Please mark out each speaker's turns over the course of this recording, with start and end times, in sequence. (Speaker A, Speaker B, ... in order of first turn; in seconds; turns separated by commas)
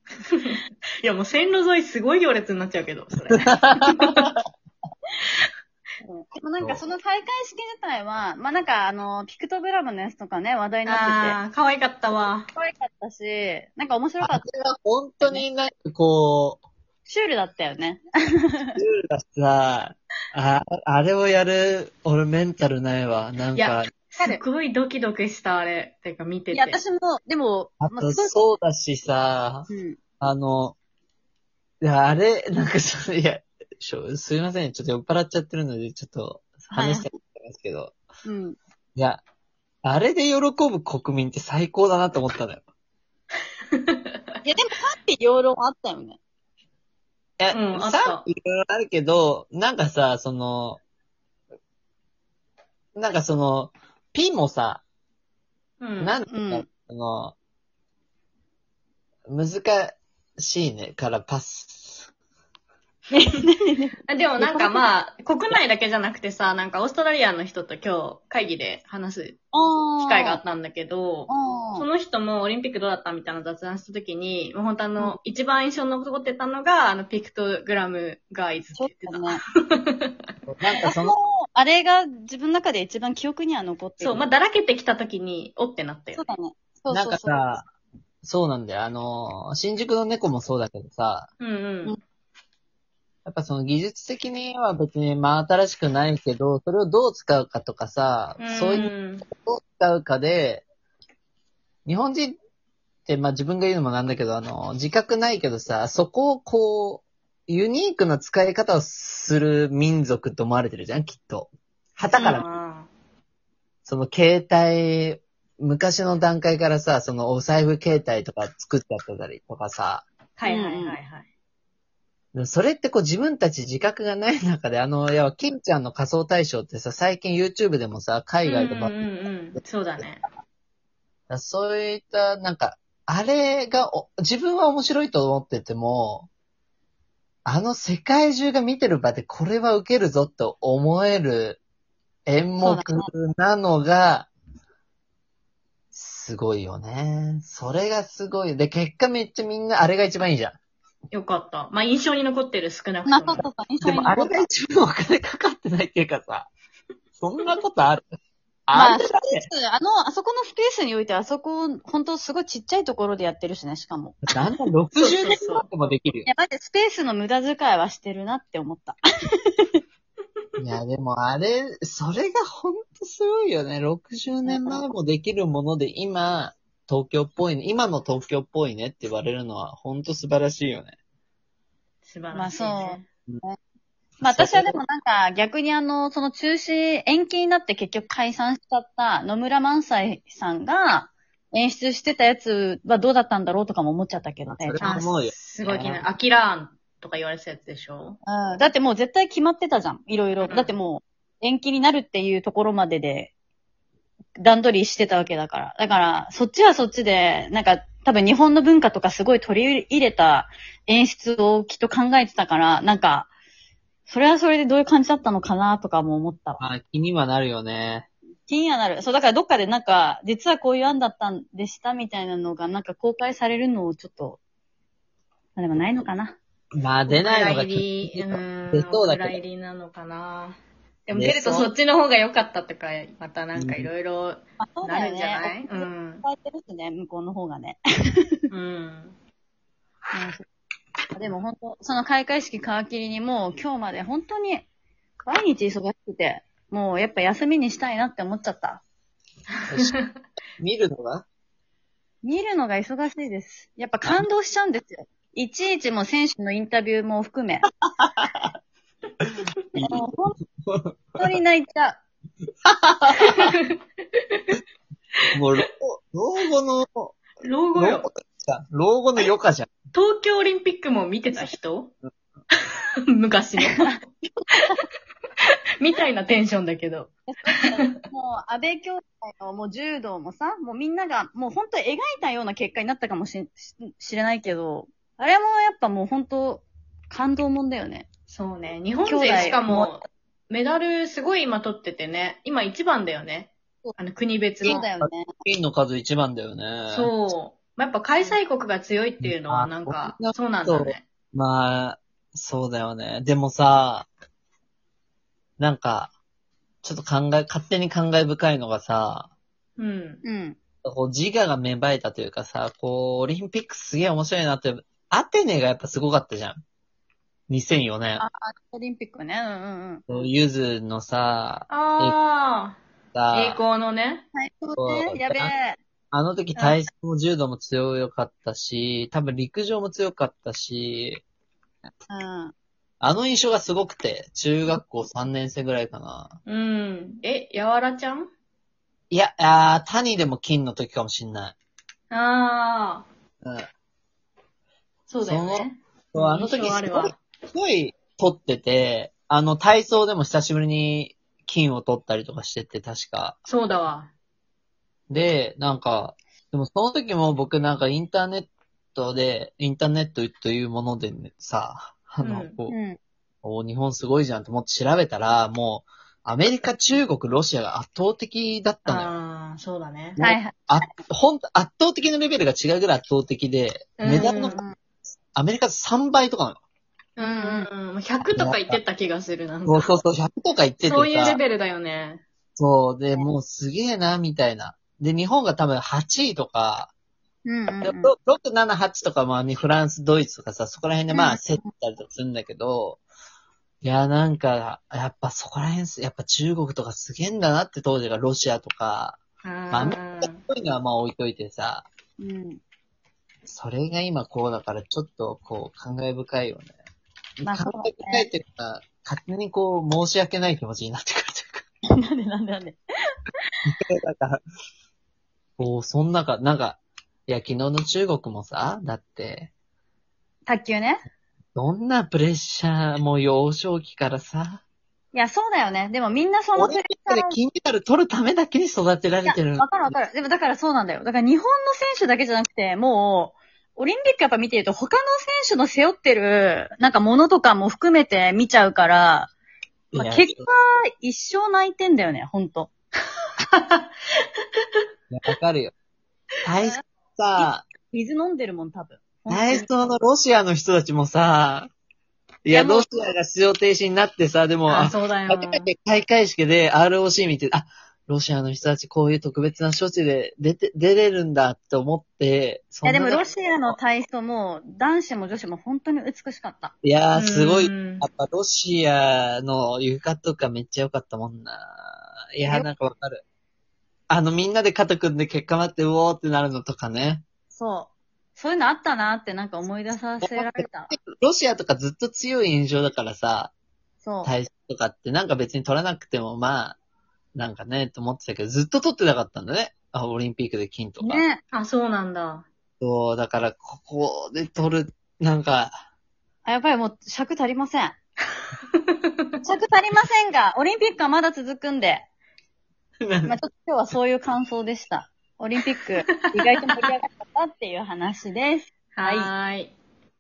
Speaker A: 0.3-4.3, Speaker B: 3.3-4.1, Speaker C: 6.0-11.4, Speaker A: 10.9-12.5, Speaker C: 12.1-14.4, Speaker B: 14.2-16.6, Speaker C: 17.1-18.8, Speaker B: 18.8-23.9, Speaker A: 23.6-26.8, Speaker C: 26.5-28.4, Speaker B: 27.8-29.7, Speaker C: 29.7-30.0, Speaker B: 30.2-30.8, Speaker B: 31.8-38.0, Speaker C: 36.7-37.1, Speaker C: 38.2-38.6, Speaker B: 39.0-39.2, Speaker B: 39.8-42.6, Speaker C: 44.4-46.2, Speaker B: 47.4-50.8, Speaker A: 47.5-48.2, Speaker B: 53.0-54.8, Speaker A: 55.8-56.1, Speaker B: 56.0-57.4, Speaker C: 56.3-56.7, Speaker B: 59.3-62.1, Speaker C: 63.1-64.8, Speaker A: 64.1-80.2, Speaker C: 69.5-70.4, Speaker C: 71.3-71.9, Speaker C: 78.8-79.4, Speaker B: 80.5-81.2, Speaker C: 80.8-84.2, Speaker A: 84.0-86.2, Speaker C: 86.2-87.4, Speaker B: 86.9-87.7, Speaker B: 88.2-91.3, Speaker A: 91.4-92.0, Speaker B: 93.3-100.7, Speaker A: 98.4-99.2, Speaker B: 101.9-102.4, Speaker B: 103.1-112.5, Speaker A: 112.1-112.9, Speaker B: 113.9-120.1, Speaker A: 120.4-121.3, Speaker C: 120.5-121.0, Speaker B: 122.3-129.0, Speaker A: 128.5-130.2, Speaker B: 131.3-136.3, Speaker B: 137.5-141.6, Speaker B: 142.3-144.3, Speaker C: 142.6-143.1, Speaker B: 145.9-150.6, Speaker A: 151.1-153.4, Speaker C: 153.1-154.5, Speaker B: 153.8-156.5, Speaker B: 157.2-158.1, Speaker B: 158.7-159.5, Speaker C: 158.7-164.2, Speaker B: 164.2-166.3, Speaker A: 165.0-165.7, Speaker C: 166.3-169.8, Speaker B: 170.6-180.9, Speaker C: 174.4-174.8, Speaker A: 182.1-183.1, Speaker C: 182.3-183.6, Speaker C: 184.2-194.9, Speaker B: 184.2-184.8, Speaker B: 194.5-196.1, Speaker A: 194.8-198.2, Speaker C: 198.3-203.3, Speaker A: 200.4-200.7, Speaker C: 204.4-213.3, Speaker C: 214.1-216.6, Speaker B: 216.6-218.1, Speaker C: 218.5-224.4, Speaker C: 225.6-226.4, Speaker B: 226.8-229.4, Speaker A: 227.1-236.2, Speaker B: 231.1-231.7, Speaker B: 233.6-233.9, Speaker C: 234.6-238.5, Speaker A: 238.5-239.2, Speaker C: 240.1-240.4, Speaker C: 241.2-244.7, Speaker C: 245.2-248.8, Speaker B: 249.7-249.9, Speaker A: 249.8-250.1, Speaker B: 250.6-251.3, Speaker C: 252.2-257.7, Speaker B: 258.0-258.5, Speaker C: 259.8-260.4, Speaker B: 260.7-261.4, Speaker C: 261.2-262.0, Speaker B: 262.6-263.5, Speaker A: 263.2-263.6, Speaker A: 264.3-264.6, Speaker B: 265.3-267.2, Speaker A: 267.4-268.1, Speaker B: 267.8-269.7, Speaker A: 269.9-271.9, Speaker A: 273.2-274.0, Speaker C: 273.6-274.0, Speaker A: 275.4-277.9, Speaker C: 277.3-288.1, Speaker A: 288.3-294.8, Speaker C: 289.1-289.9, Speaker B: 294.6-297.1, Speaker C: 294.6-295.3, Speaker A: 296.9-301.0, Speaker B: 299.2-304.1, Speaker B: 305.6-306.1, Speaker B: 306.8-309.3, Speaker A: 309.8-310.2, Speaker C: 310.2-310.6, Speaker B: 310.8-316.6, Speaker B: 317.5-318.2, Speaker C: 318.2-320.0, Speaker B: 320.1-322.2, Speaker A: 321.7-322.8, Speaker B: 323.1-323.6, Speaker A: 323.3-324.2, Speaker C: 324.4-325.8, Speaker B: 324.8-325.5, Speaker B: 326.1-331.2, Speaker C: 332.1-332.5, Speaker B: 333.0-336.4, Speaker A: 336.5-338.3, Speaker B: 339.1-341.6, Speaker A: 342.1-343.1, Speaker A: 345.1-347.2, Speaker B: 345.2-353.4, Speaker A: 353.5-354.1, Speaker B: 355.1-362.8, Speaker A: 362.2-362.5, Speaker C: 362.7-363.0, Speaker B: 363.4-369.1, Speaker A: 368.9-370.2, Speaker B: 370.2-374.6, Speaker C: 370.2-370.7, Speaker A: 374.0-374.6, Speaker C: 374.1-374.8, Speaker B: 375.3-376.6, Speaker A: 377.2-379.9, Speaker C: 377.2-377.7, Speaker B: 378.3-378.8, Speaker B: 379.7-381.4, Speaker A: 380.8-382.2, Speaker B: 382.6-386.9, Speaker C: 387.4-388.1, Speaker B: 387.8-393.0, Speaker C: 391.1-391.7, Speaker B: 393.8-401.9, Speaker A: 399.4-400.4, Speaker C: 402.2-402.6, Speaker B: 403.5-406.8, Speaker B: 407.4-411.6, Speaker C: 407.4-408.3, Speaker C: 411.9-412.8, Speaker B: 413.7-414.4, Speaker B: 415.6-419.5, Speaker C: 420.5-421.0, Speaker B: 421.6-424.6, Speaker C: 425.1-427.4, Speaker B: 426.6-429.9, Speaker C: 429.3-439.3, Speaker B: 439.9-440.5, Speaker C: 439.9-442.7, Speaker A: 443.4-443.9, Speaker B: 445.1-445.7, Speaker B: 446.4-447.6, Speaker C: 447.4-449.9, Speaker B: 449.3-451.7, Speaker B: 452.4-463.8, Speaker C: 452.5-452.9, Speaker A: 454.7-455.7, Speaker C: 462.8-466.7, Speaker B: 466.8-473.2, Speaker A: 467.1-468.1, Speaker B: 474.1-477.2, Speaker C: 477.5-480.9, Speaker B: 480.2-483.5, Speaker C: 484.0-484.3, Speaker B: 484.2-486.8, Speaker B: 487.4-491.2, Speaker C: 491.0-491.4, Speaker A: 491.5-492.5, Speaker B: 492.8-495.8, Speaker C: 496.4-498.0, Speaker C: 499.4-502.1, Speaker B: 503.0-503.4, Speaker C: 503.2-509.3, Speaker A: 506.1-506.9, Speaker A: 509.0-509.7